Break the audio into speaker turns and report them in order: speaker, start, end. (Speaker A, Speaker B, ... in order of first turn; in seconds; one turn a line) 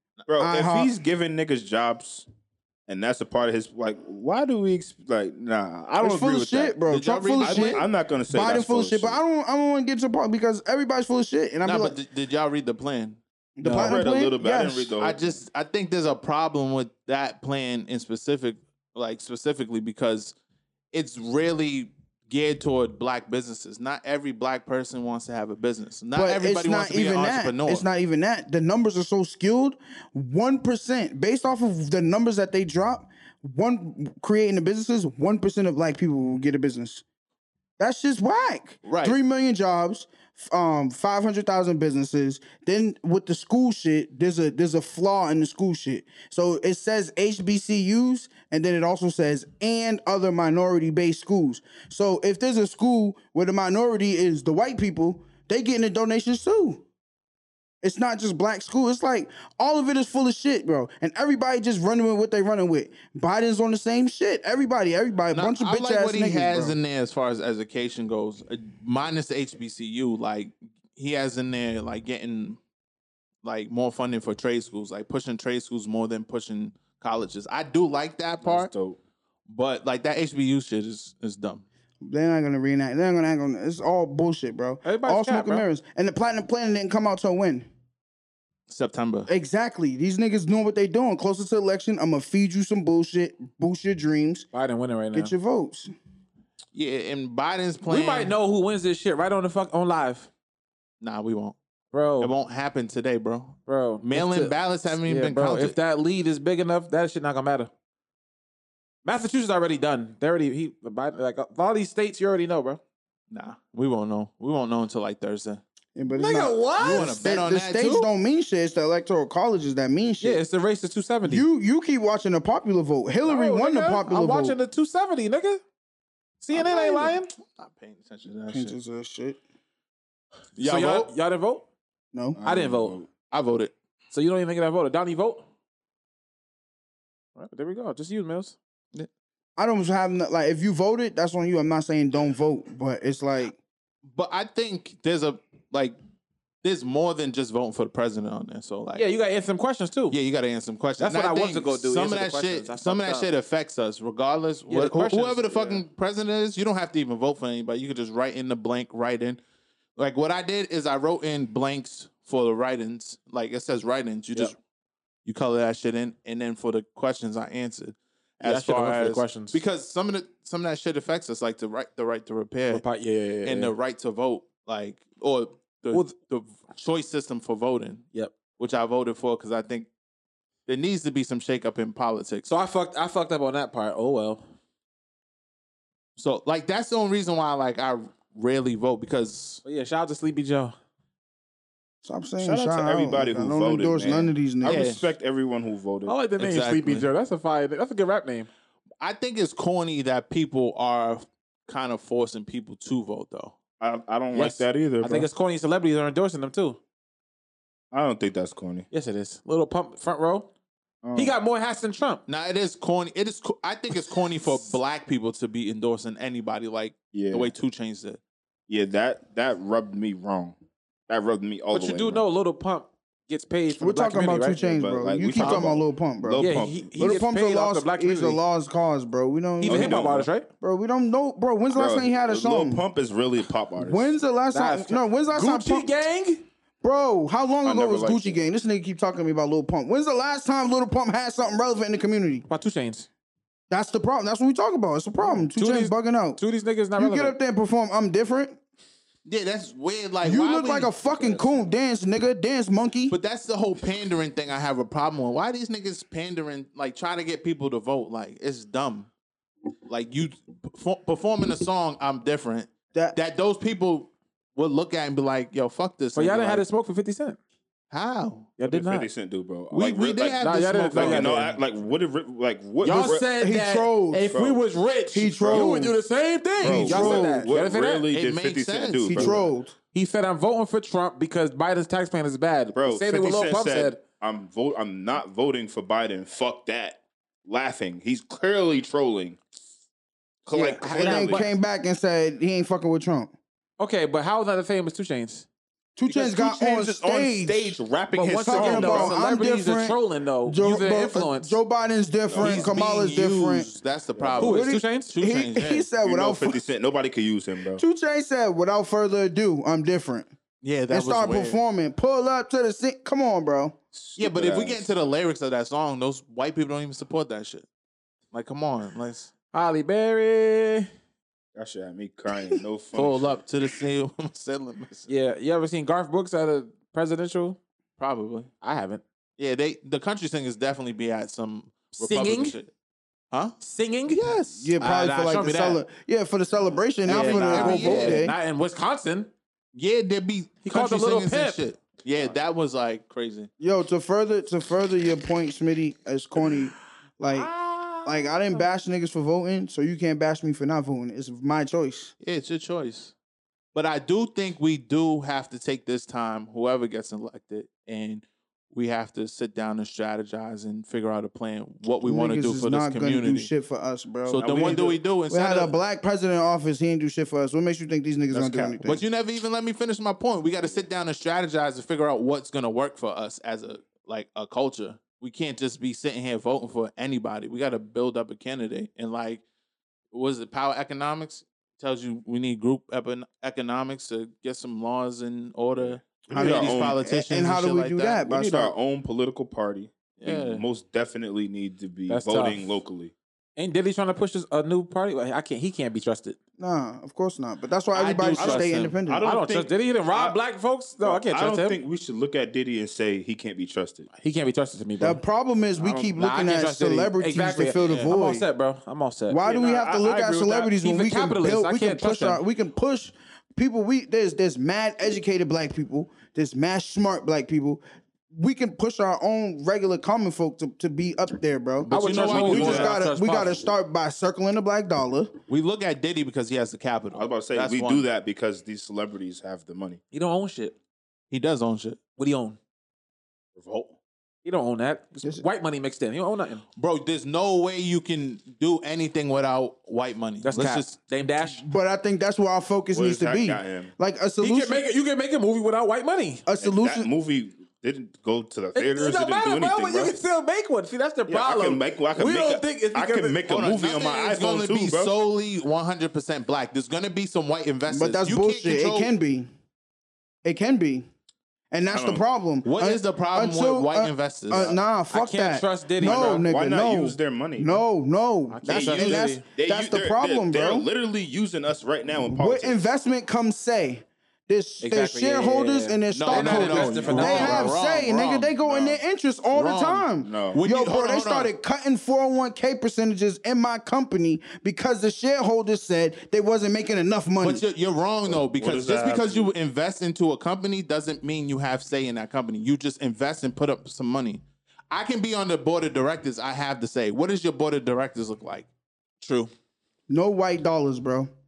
Speaker A: 0.3-2.3
Speaker B: 0.4-0.9
Speaker A: 2.9-6.8
Speaker B: 6.0-12.0
Speaker C: 6.9-7.8
Speaker A: 7.4-9.2
Speaker C: 11.6-13.2
Speaker B: 13.6-14.9
Speaker D: 13.6-14.0
Speaker A: 13.7-15.4
Speaker C: 15.0-20.4
Speaker C: 20.9-27.9
Speaker B: 26.1-37.0
Speaker B: 37.8-56.8
Speaker C: 38.8-39.2
Speaker B: 57.8-66.8
Speaker C: 65.3-72.6
Speaker C: 73.4-78.7
Speaker A: 78.4-79.0
Speaker C: 79.5-81.6
Speaker B: 82.0-87.7
Speaker D: 84.8-85.7
Speaker C: 88.7-89.3
Speaker B: 89.3-94.5
Speaker D: 94.5-95.3
Speaker B: 95.1-95.9
Speaker C: 96.7-98.3
Speaker D: 97.9-100.3
Speaker C: 101.0-101.6
Speaker D: 101.9-102.3
Speaker C: 102.2-105.8
Speaker D: 103.7-107.7
Speaker D: 109.0-112.8
Speaker C: 113.3-115.6
Speaker B: 116.0-120.4
Speaker D: 116.1-117.2
Speaker C: 116.8-118.1
Speaker D: 120.2-121.5
Speaker B: 121.2-124.6
Speaker D: 123.2-125.6
Speaker D: 126.4-127.3
Speaker C: 126.5-128.8
Speaker B: 128.5-129.4
Speaker C: 130.6-131.1
Speaker D: 130.6-131.7
Speaker B: 132.1-132.4
Speaker A: 132.4-133.1
Speaker D: 132.4-133.0
Speaker C: 133.3-133.7
Speaker D: 134.1-135.4
Speaker D: 137.4-138.6
Speaker B: 139.6-143.6
Speaker C: 144.1-146.0
Speaker C: 146.6-149.1
Speaker D: 148.9-150.2
Speaker C: 150.1-159.4
Speaker D: 151.0-153.3
Speaker D: 154.7-155.5
Speaker C: 160.0-164.6
Speaker C: 165.3-172.8
Speaker D: 168.4-169.6
Speaker D: 172.7-173.7
Speaker C: 173.4-178.1
Speaker C: 178.6-179.9
Speaker C: 180.7-182.5
Speaker D: 182.5-184.4
Speaker C: 186.2-189.6
Speaker D: 189.6-190.8
Speaker B: 192.0-194.8
Speaker A: 192.4-196.2
Speaker C: 194.7-195.1
Speaker D: 196.1-198.5
Speaker C: 196.4-197.1
Speaker C: 199.0-203.6
Speaker A: 203.8-205.3
Speaker D: 204.3-206.8
Speaker A: 207.9-208.9
Speaker D: 208.9-210.5
Speaker A: 211.0-211.3
Speaker D: 211.2-212.2
Speaker C: 212.3-218.2
Speaker A: 217.1-217.5
Speaker A: 218.7-220.6
Speaker A: 221.1-222.2
Speaker D: 221.7-224.7
Speaker B: 223.8-226.5
Speaker A: 224.7-227.2
Speaker C: 225.4-225.7
Speaker D: 226.4-228.4
Speaker B: 227.0-230.1
Speaker D: 229.6-230.5
Speaker A: 229.6-230.3
Speaker B: 230.6-232.8
Speaker A: 231.7-234.2
Speaker B: 233.8-235.9
Speaker D: 234.5-236.4
Speaker B: 236.8-242.5
Speaker A: 237.7-238.4
Speaker D: 242.5-243.1
Speaker B: 243.7-246.4
Speaker D: 245.4-247.4
Speaker B: 247.0-248.6
Speaker C: 249.3-250.9
Speaker B: 250.2-253.2
Speaker A: 251.1-251.7
Speaker C: 253.1-259.1
Speaker C: 259.9-266.6
Speaker D: 266.1-267.4
Speaker C: 267.9-268.5
Speaker D: 268.6-269.1
Speaker A: 268.6-270.4
Speaker C: 269.7-271.4
Speaker D: 270.4-271.6
Speaker A: 270.9-273.2
Speaker D: 272.8-278.1
Speaker B: 272.9-274.3
Speaker A: 274.3-274.6
Speaker B: 275.1-276.0
Speaker A: 276.6-279.5
Speaker B: 276.6-277.5
Speaker C: 278.1-279.4
Speaker B: 279.1-279.8
Speaker D: 279.9-284.0
Speaker A: 282.7-289.4
Speaker A: 290.4-291.4
Speaker D: 290.5-291.5
Speaker B: 290.9-293.3
Speaker D: 293.8-295.5
Speaker B: 296.0-297.8
Speaker A: 296.1-299.1
Speaker D: 298.1-301.6
Speaker B: 298.4-303.7
Speaker A: 302.3-302.7
Speaker C: 302.4-305.9
Speaker A: 304.1-304.4
Speaker D: 304.4-305.1
Speaker B: 304.4-306.6
Speaker A: 306.0-307.8
Speaker B: 307.8-310.3
Speaker C: 310.6-311.6
Speaker B: 310.9-313.8
Speaker A: 313.9-314.9
Speaker C: 314.2-317.7
Speaker C: 318.3-319.3
Speaker D: 319.5-320.9
Speaker A: 321.6-323.3
Speaker C: 322.9-325.1
Speaker D: 325.1-327.6
Speaker C: 328.0-328.5
Speaker D: 328.6-329.0
Speaker C: 329.4-332.7
Speaker D: 332.0-332.6
Speaker C: 333.3-333.6
Speaker D: 333.6-334.2
Speaker C: 334.1-334.7
Speaker B: 334.6-338.4
Speaker D: 334.8-335.8
Speaker D: 337.1-339.3
Speaker C: 337.1-338.3
Speaker C: 339.7-343.5
Speaker D: 340.6-341.6
Speaker B: 343.6-347.5
Speaker D: 347.4-348.1
Speaker B: 348.1-352.1
Speaker C: 352.2-353.1
Speaker C: 353.7-363.5
Speaker B: 362.0-369.0
Speaker C: 364.3-365.7
Speaker A: 364.4-365.0
Speaker A: 368.3-369.0
Speaker C: 368.8-379.4
Speaker C: 380.1-388.2
Speaker A: 385.8-387.0
Speaker B: 386.3-388.7
Speaker A: 388.3-393.1
Speaker C: 390.2-390.6
Speaker D: 392.1-392.7
Speaker D: 393.6-396.4
Speaker B: 396.6-399.3
Speaker C: 397.9-399.0
Speaker A: 398.4-400.4
Speaker D: 399.2-401.8
Speaker A: 401.0-404.1
Speaker D: 404.1-405.2
Speaker B: 405.0-408.5
Speaker D: 405.8-409.4
Speaker C: 407.8-408.1
Speaker B: 409.3-425.4
Speaker A: 409.4-410.7
Speaker D: 410.8-412.4
Speaker C: 421.8-422.9
Speaker D: 421.9-423.7
Speaker A: 422.5-422.8
Speaker C: 425.5-428.1
Speaker A: 427.1-430.0
Speaker D: 430.1-430.8
Speaker C: 431.3-432.0
Speaker D: 432.2-432.6
Speaker A: 433.6-434.0
Speaker D: 434.4-436.6
Speaker C: 436.8-440.9
Speaker D: 440.4-441.6
Speaker B: 441.6-444.8
Speaker A: 442.9-443.9
Speaker D: 444.4-446.5
Speaker B: 446.5-447.1
Speaker A: 446.6-450.2
Speaker D: 448.8-453.4
Speaker A: 451.3-455.1
Speaker C: 453.5-459.1
Speaker B: 457.9-459.5
Speaker B: 460.4-461.1
Speaker B: 461.7-470.9
Speaker A: 461.9-462.2
Speaker C: 462.6-464.8
Speaker A: 464.5-464.8
Speaker D: 465.1-466.4
Speaker A: 466.0-467.8
Speaker D: 468.5-469.4
Speaker C: 468.7-469.3
Speaker A: 469.5-472.8
Speaker B: 472.3-487.6
Speaker D: 474.8-477.8
Speaker C: 476.1-478.6
Speaker A: 478.6-479.0
Speaker C: 479.5-481.5
Speaker A: 480.2-480.6
Speaker C: 487.4-498.7
Speaker A: 488.3-489.5
Speaker D: 499.2-499.5
Speaker B: 500.1-501.3